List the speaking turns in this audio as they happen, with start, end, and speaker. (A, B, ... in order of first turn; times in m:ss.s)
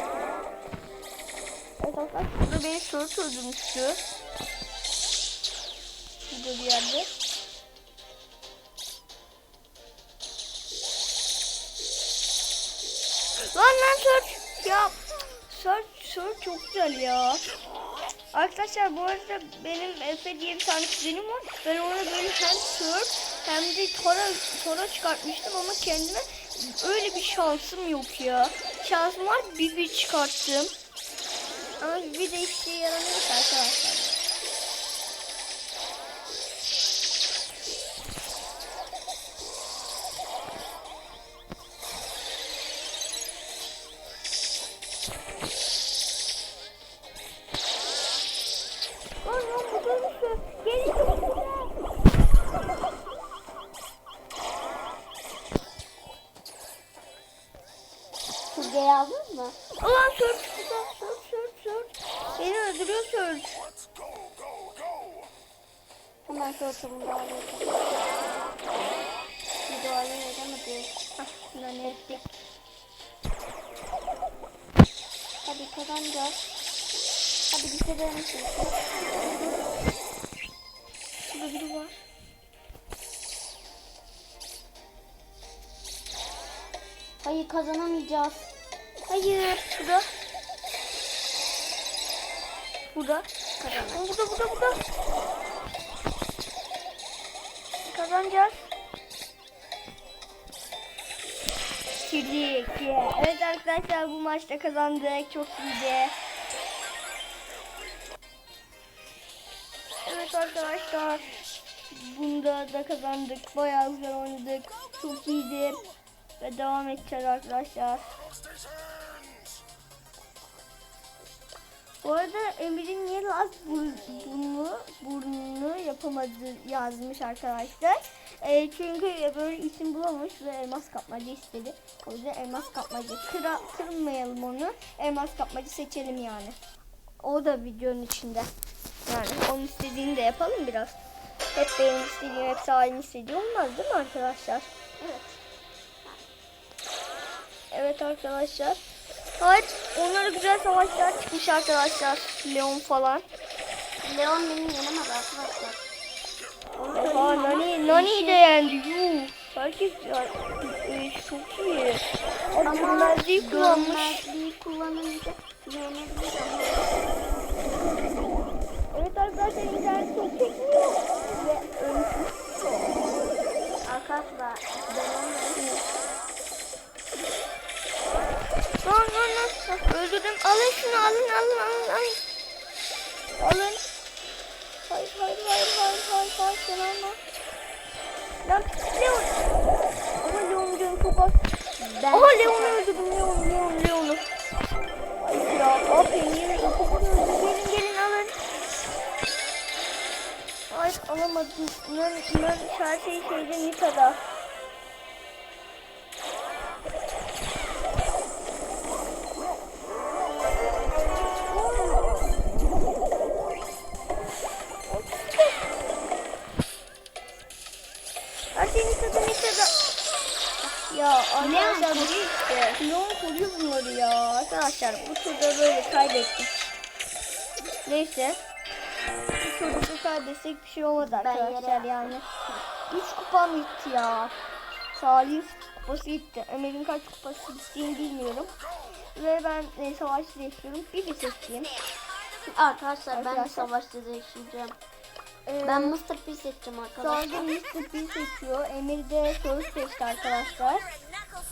0:01.8-0:04.0 A
0:06.3-0:07.1 A
0:13.5-0:15.0 A
0:15.5-0:17.4 A
0:18.3-0:30.7 A
0:31.8-0:34.2 A
0:49.2-0:51.8 A
0:58.5-0:59.6 B
0:59.8-1:03.6 A
1:06.3-1:07.8 B
1:09.7-1:10.9 B
1:11.2-1:12.3 A
1:11.8-1:12.2 B
1:15.4-1:16.4 B
1:17.5-1:18.8 B
1:21.3-1:22.0 A
1:27.2-1:28.5 B
1:29.0-1:29.6 B
1:29.6-1:30.1 A
1:32.9-1:33.3 A
1:33.6-1:34.0 B
1:33.9-1:34.8 A
1:37.9-1:38.7 A
1:42.1-1:46.2 A
1:50.0-1:55.8 A
1:56.4-1:58.1 A
2:02.0-2:16.6 A
2:17.2-2:18.5 A
2:19.1-2:21.0 A
2:21.6-2:24.7 A
2:25.0-2:25.4 B
2:27.7-2:28.8 A
2:29.4-2:33.2 A
2:34.0-2:35.8 B
2:36.8-2:38.6 B
2:37.0-2:44.2 A
2:42.6-2:47.2 B
2:48.9-2:53.0 A
2:53.8-2:55.6 B
2:55.6-2:55.8 A
2:58.8-3:02.2 A
3:03.4-3:03.8 A
3:04.9-3:07.2 A
3:08.4-3:09.4 A
3:10.2-3:11.4 A
3:11.8-3:13.2 B
3:12.1-3:14.3 A
3:15.2-3:18.4 A
3:20.7-3:24.2 A
3:31.5-3:32.3 A
3:38.6-3:39.7 A
3:40.9-3:42.2 A
3:41.4-3:42.8 B
3:42.8-3:46.5 A
3:47.9-3:48.4 A
3:49.4-3:52.2 A
3:51.0-3:52.2 B
3:52.9-3:54.4 A
3:54.9-3:58.5 A
3:59.2-4:01.7 A
4:02.4-4:04.8 B
4:03.1-4:03.7 A
4:05.5-4:05.9 A
4:05.6-4:07.5 B
4:07.0-4:10.9 A